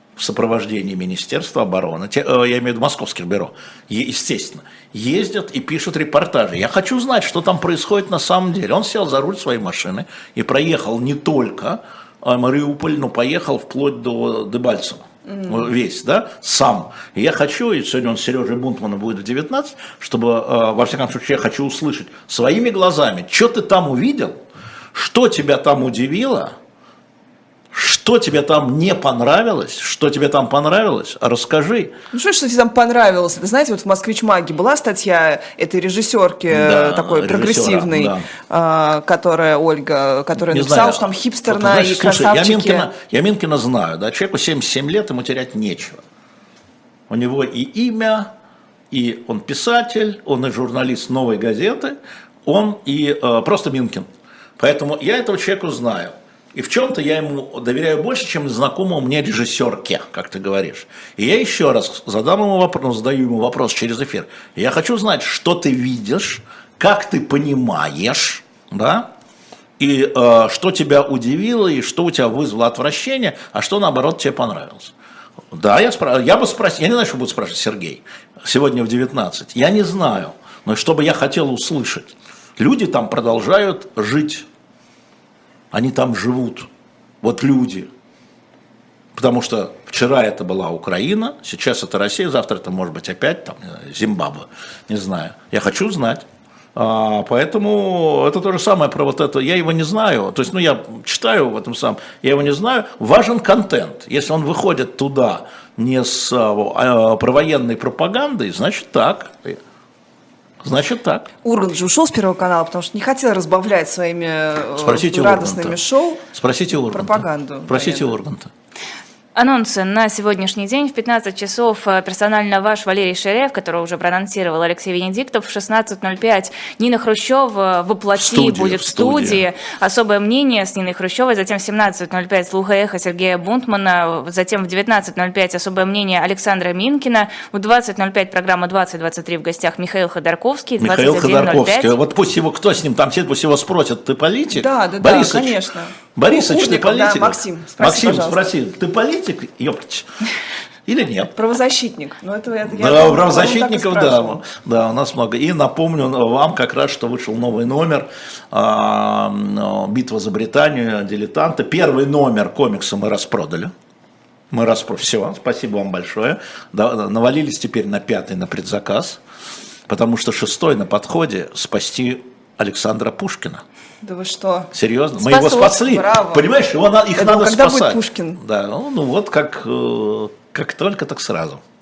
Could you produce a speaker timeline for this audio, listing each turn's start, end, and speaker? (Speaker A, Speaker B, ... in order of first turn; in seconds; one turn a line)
Speaker A: 0.2-24.4
Speaker A: 24.9-26.6
Speaker A: 27.7-32.0
Speaker B: 32.1-42.9
Speaker A: 36.5-38.3
Speaker A: 40.4-46.0
Speaker A: 47.1-48.3
Speaker A: 48.9-69.1
Speaker A: 69.8-74.9
Speaker A: 75.5-84.5
Speaker A: 85.7-86.7
Speaker A: 87.2-87.9
Speaker A: 89.2-109.6
Speaker A: 110.6-111.3
Speaker B: 111.4-116.2
Speaker A: 114.8-115.8
Speaker A: 116.3-118.5
Speaker B: 116.9-118.1
Speaker C: 119.4-141.9
Speaker A: 128.2-129.4
Speaker A: 140.8-145.6
Speaker B: 144.5-148.5
Speaker A: 146.2-150.1
Speaker A: 150.9-151.3
Speaker B: 151.3-154.4
Speaker A: 152.7-163.7
Speaker A: 164.5-169.2
Speaker A: 169.9-173.6
Speaker B: 174.0-174.7
Speaker A: 174.7-181.6
Speaker C: 175.2-175.7
Speaker B: 175.3-176.5
Speaker B: 177.2-178.4